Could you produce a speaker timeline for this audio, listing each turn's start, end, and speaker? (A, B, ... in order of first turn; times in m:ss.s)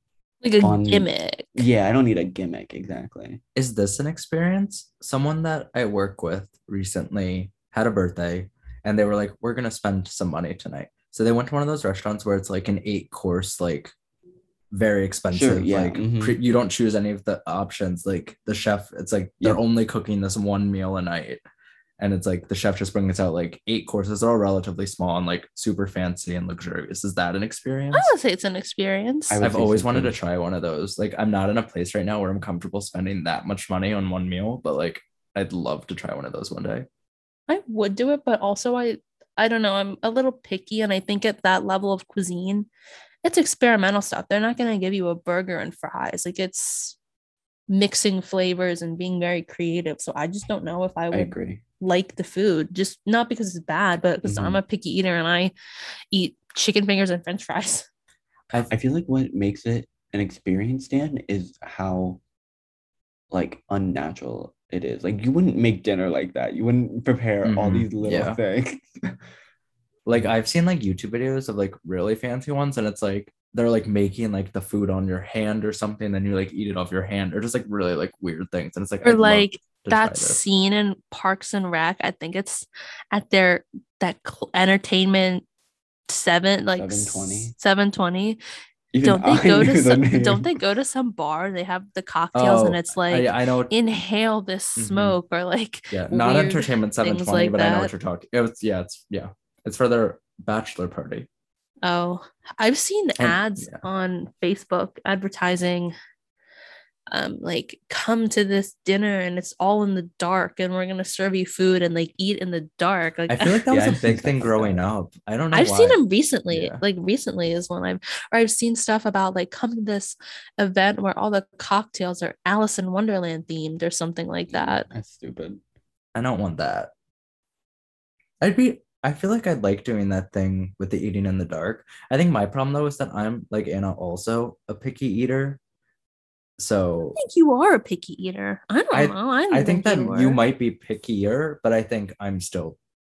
0:00.4-0:01.7 A
0:00.6-0:03.4 B
0:03.6-0:13.9 C
0:14.7-0:21.4 C
0:15.3-0:16.4 B
0:22.0-0:28.1 C
0:27.9-0:29.4 A
0:29.3-0:30.2 B
0:29.4-0:36.9 C
0:37.5-0:42.7 A
0:43.2-0:47.0 A
0:47.7-0:55.5 A
0:51.1-0:51.6 B
0:54.2-0:54.6 B
0:56.1-0:57.9 A
0:58.7-1:02.2 B
1:03.3-1:09.2 B
1:07.4-1:08.4 C
1:10.1-1:20.4 C
1:19.0-1:25.4 A
1:26.1-1:28.4 A
1:26.7-1:27.6 B
1:28.9-1:30.6 B
1:29.0-1:37.9 A
1:32.4-1:33.7 C
1:34.8-1:35.2 C
1:35.9-1:41.3 C
1:41.8-1:45.9 A
1:43.2-1:43.8 C
1:47.1-1:53.6 A
1:53.3-1:56.0 C
1:53.7-1:54.9 B
1:55.5-2:04.9 A
1:56.5-1:56.8 C
2:04.5-2:05.6 B
2:06.2-2:06.9 C
2:08.4-2:15.6 C
2:16.6-2:17.2 C
2:17.2-2:20.4 A
2:18.9-2:22.8 C